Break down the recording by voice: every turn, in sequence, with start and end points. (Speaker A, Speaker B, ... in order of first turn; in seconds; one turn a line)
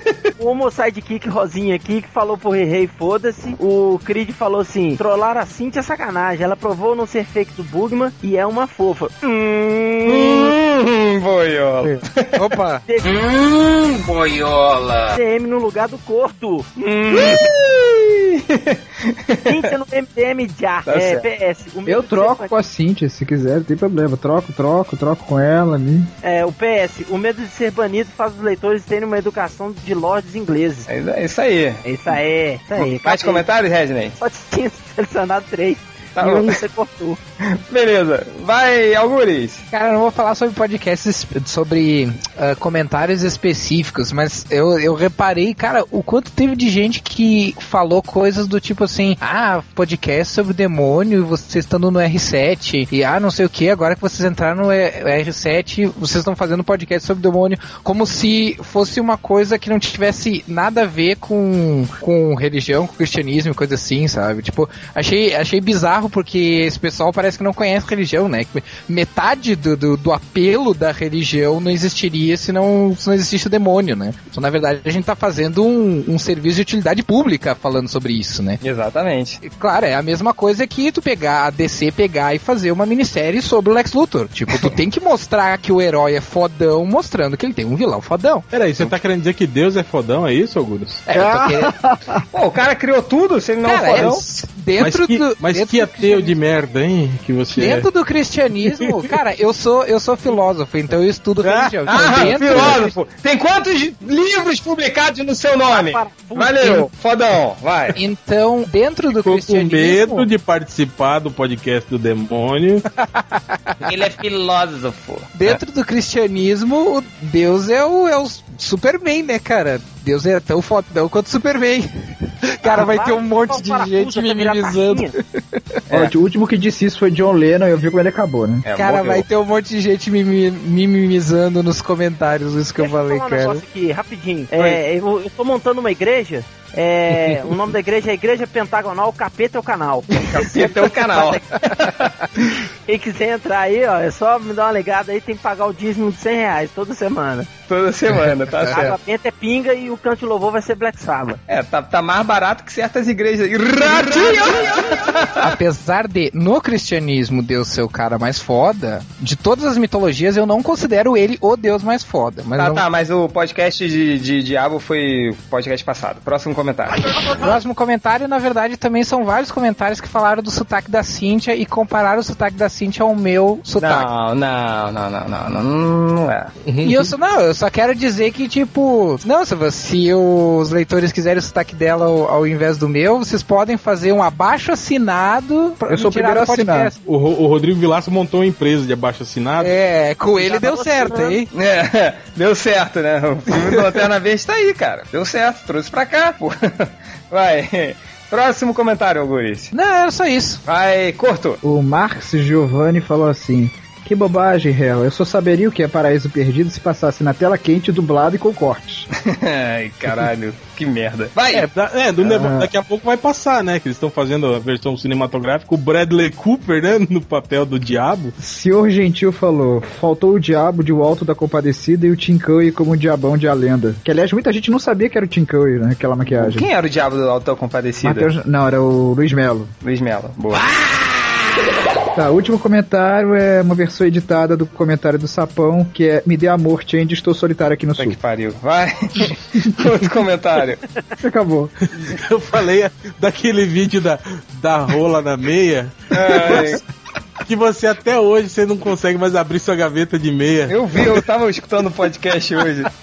Speaker A: 0.4-10.5
Speaker B: 10.1-12.5
Speaker C: 11.9-12.8
Speaker D: 13.0-15.2
Speaker A: 15.1-17.3
Speaker B: 16.8-19.7
Speaker A: 19.5-22.5
Speaker B: 20.9-21.2
Speaker E: 21.9-26.1
Speaker A: 26.2-30.9
Speaker B: 30.9-32.2
Speaker A: 31.8-33.4
Speaker B: 32.8-34.2
Speaker A: 34.2-37.2
Speaker B: 36.2-36.6
Speaker B: 37.4-39.6
Speaker C: 39.7-78.6
Speaker B: 78.6-79.4
Speaker C: 79.4-88.5
Speaker F: 88.5-91.1
Speaker C: 91.1-91.8
Speaker E: 91.1-92.2
Speaker B: 92.3-94.2
Speaker C: 93.6-96.4
Speaker F: 94.0-97.9
Speaker C: 97.5-103.0
Speaker F: 101.4-101.7
Speaker B: 101.9-108.0
Speaker A: 105.7-106.9
Speaker C: 107.9-110.3
Speaker F: 109.1-112.8
Speaker C: 113.0-113.8
Speaker B: 113.8-115.6
Speaker C: 115.3-125.8
Speaker A: 122.6-125.1
Speaker E: 125.9-128.7
Speaker B: 128.7-129.3
Speaker C: 128.7-133.6
Speaker A: 132.8-141.4
Speaker B: 140.3-142.7
Speaker A: 142.9-147.5
Speaker B: 147.7-149.0
Speaker A: 148.6-151.4
Speaker B: 151.5-155.5
Speaker C: 155.4-162.8
Speaker B: 162.6-167.2
Speaker C: 167.3-174.1
Speaker B: 173.8-176.5
Speaker F: 176.7-177.1
Speaker C: 176.8-187.0
Speaker E: 185.9-186.9
Speaker F: 187.1-189.7
Speaker C: 189.6-191.5
Speaker A: 190.4-191.4
Speaker B: 191.5-199.7
Speaker C: 199.7-200.6
Speaker B: 200.7-201.6
Speaker E: 201.6-209.1
Speaker B: 209.2-211.7
Speaker F: 211.5-218.3
Speaker E: 212.2-212.7
Speaker E: 218.4-226.7
Speaker B: 226.3-228.3
Speaker E: 228.0-229.7
Speaker B: 229.8-230.7
Speaker E: 232.1-238.2
Speaker B: 238.0-240.8
Speaker E: 241.2-241.7
Speaker F: 241.9-246.8
Speaker B: 246.1-246.8
Speaker F: 247.4-251.2
Speaker B: 250.7-252.9